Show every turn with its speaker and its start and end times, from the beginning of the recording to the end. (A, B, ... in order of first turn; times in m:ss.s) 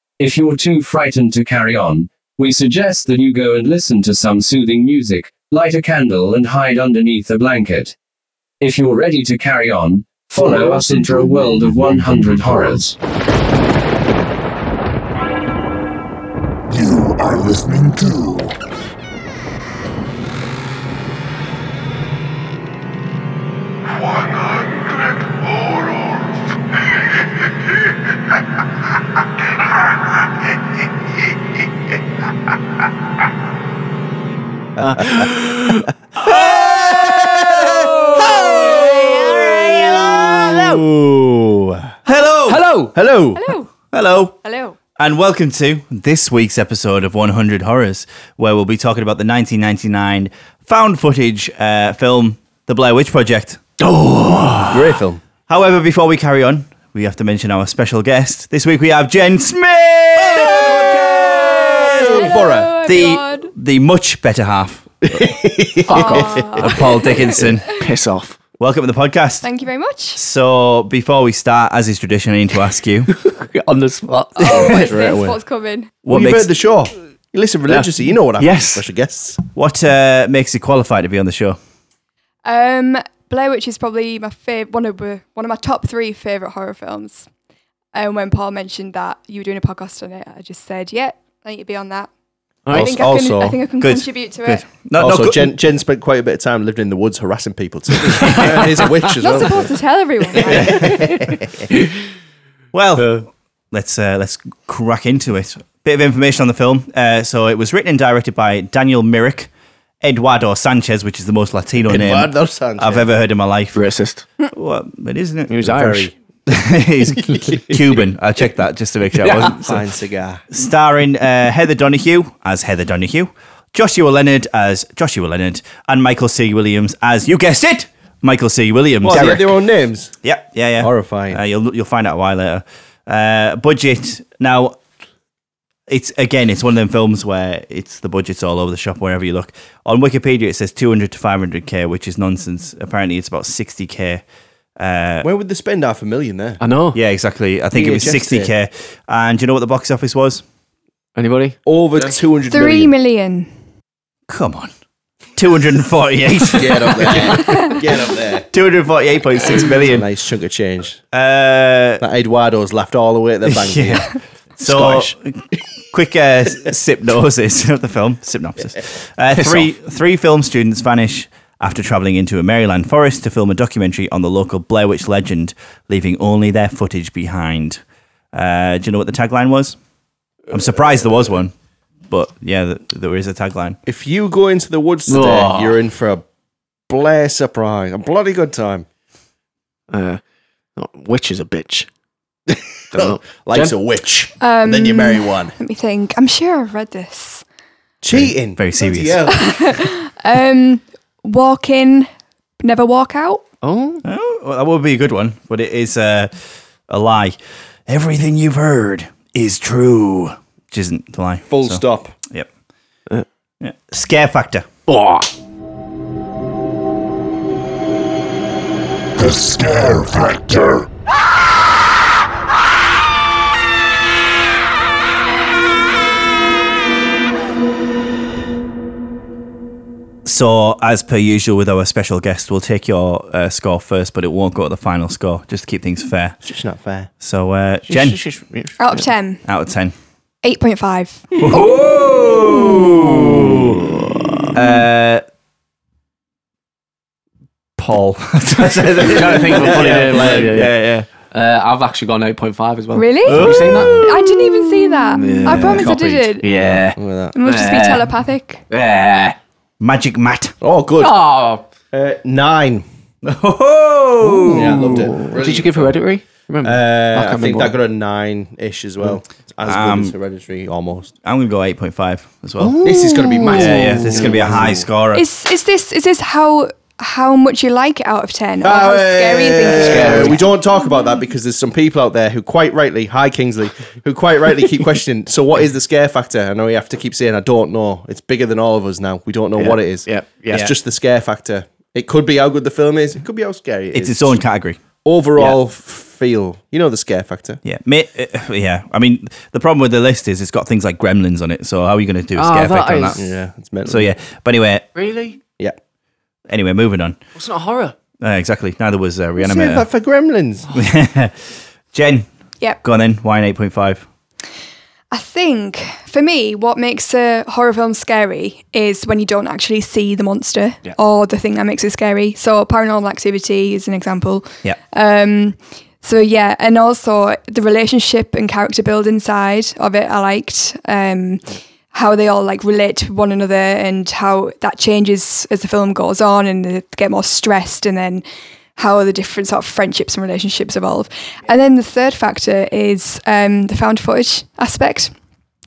0:00.2-0:08.0 A
0:08.6-0:13.0 A
0:16.7-0:18.5 B
0:34.8-0:35.3 C
0:34.8-0:35.9 D
0:36.2-0:41.9 C
0:38.7-0:40.8 E
0:42.0-0:42.7 E
0:42.5-0:42.9 D
0:42.9-0:43.4 C
0:43.4-0:43.7 F
0:43.9-0:44.4 E
0:44.4-0:44.8 F
0:45.0-0:53.6 E
0:53.8-0:54.9 D
0:54.7-0:55.2 C
0:55.5-1:02.3 E
1:00.2-1:03.0 C
1:01.5-1:03.5 F
1:02.8-1:05.2 E
1:05.0-1:06.6 C
1:05.9-1:06.4 D
1:05.9-1:07.5 F
1:06.4-1:07.8 E
1:07.6-1:08.4 D
1:08.6-1:09.5 E
1:09.4-1:10.2 F
1:10.2-1:13.1 E
1:13.2-1:14.5 D
1:14.4-1:15.9 F
1:14.4-1:15.4 C
1:16.0-1:16.5 E
1:16.1-1:19.4 C
1:17.7-1:18.8 D
1:19.5-1:21.6 E
1:22.4-1:27.3 F
1:27.9-1:32.1 F
1:32.6-1:32.9 D
1:32.7-1:34.6 F
1:32.7-1:33.6 C
1:33.8-1:35.5 E
1:35.0-1:39.7 C
1:38.1-1:38.9 D
1:39.2-1:40.8 F
1:40.3-1:41.5 C
1:40.5-1:40.9 E
1:42.7-1:49.5 E
1:43.0-1:43.2 D
1:50.0-1:53.8 E
1:51.9-1:53.0 C
1:53.7-1:54.2 D
1:54.4-1:59.8 E
1:55.5-1:56.1 D
1:59.2-1:59.6 D
1:59.3-2:00.4 C
2:00.5-2:09.5 E
2:09.0-2:10.1 C
2:10.2-2:14.8 E
2:10.8-2:11.4 C
2:15.9-2:24.2 E
2:24.8-2:25.3 E
2:25.2-2:26.6 C
2:26.6-2:27.0 D
2:26.9-2:30.4 E
2:27.7-2:28.5 C
2:31.2-2:31.6 D
2:31.6-2:32.9 C
2:32.5-2:33.5 F
2:34.3-2:34.7 E
2:35.4-2:37.8 E
2:36.4-2:38.5 C
2:38.5-2:40.1 E
2:39.5-2:41.0 C
2:41.1-2:42.0 E
2:42.0-2:45.1 C
2:43.5-2:57.8 E
2:58.3-2:59.8 E
3:00.5-3:01.5 E
3:02.1-3:03.8 E
3:03.8-3:06.2 C
3:05.1-3:05.8 D
3:06.9-3:08.8 C
3:09.9-3:10.2 D
3:10.8-3:11.9 D
3:12.5-3:15.5 C
3:12.9-3:13.7 D
3:14.4-3:17.4 F
3:18.0-3:19.8 C
3:18.1-3:19.3 E
3:19.3-3:22.1 F
3:22.6-3:23.4 F
3:23.6-3:24.0 D
3:24.0-3:32.5 E
3:31.5-3:32.1 C
3:33.6-3:34.6 E
3:34.9-3:35.3 D
3:39.2-3:40.9 B
3:50.2-3:56.4 E
3:56.4-3:57.1 C
3:57.2-3:58.3 E
3:57.9-3:59.0 D
3:58.8-3:59.4 F
3:59.4-3:59.9 E
4:00.4-4:01.2 F
4:01.4-4:02.8 C
4:01.4-4:03.6 E
4:02.4-4:04.5 D
4:04.5-4:05.2 E
4:07.8-4:11.1 E
4:08.9-4:14.3 D
4:09.5-4:10.6 C
4:12.9-4:16.4 F
4:13.3-4:14.0 E
4:15.1-4:15.9 D
4:15.4-4:17.3 C
4:16.4-4:18.1 D
4:17.3-4:18.6 F
4:18.7-4:19.4 D
4:19.8-4:20.5 E
4:20.6-4:21.2 C
4:21.0-4:21.6 D
4:21.9-4:22.8 C
4:23.2-4:25.1 E
4:24.2-4:27.7 D
4:24.5-4:26.0 C
4:26.6-4:31.1 C
4:29.6-4:30.1 E
4:31.2-4:35.2 E
4:32.6-4:34.8 D
4:32.8-4:34.8 C
4:35.1-4:40.5 F
4:38.6-4:54.4 C
4:39.8-4:40.4 D
4:49.6-4:50.7 D
4:53.9-4:54.8 E
4:55.0-4:57.6 C
4:57.6-5:03.2 E
5:02.4-5:03.2 D
5:03.1-5:04.1 C
5:03.8-5:04.9 E
5:04.9-5:05.4 D
5:06.5-5:07.2 E
5:07.3-5:08.0 D
5:08.2-5:09.8 E
5:09.4-5:10.8 C
5:10.7-5:12.3 E
5:12.8-5:14.0 E
5:15.1-5:38.2 F
5:38.8-5:45.1 F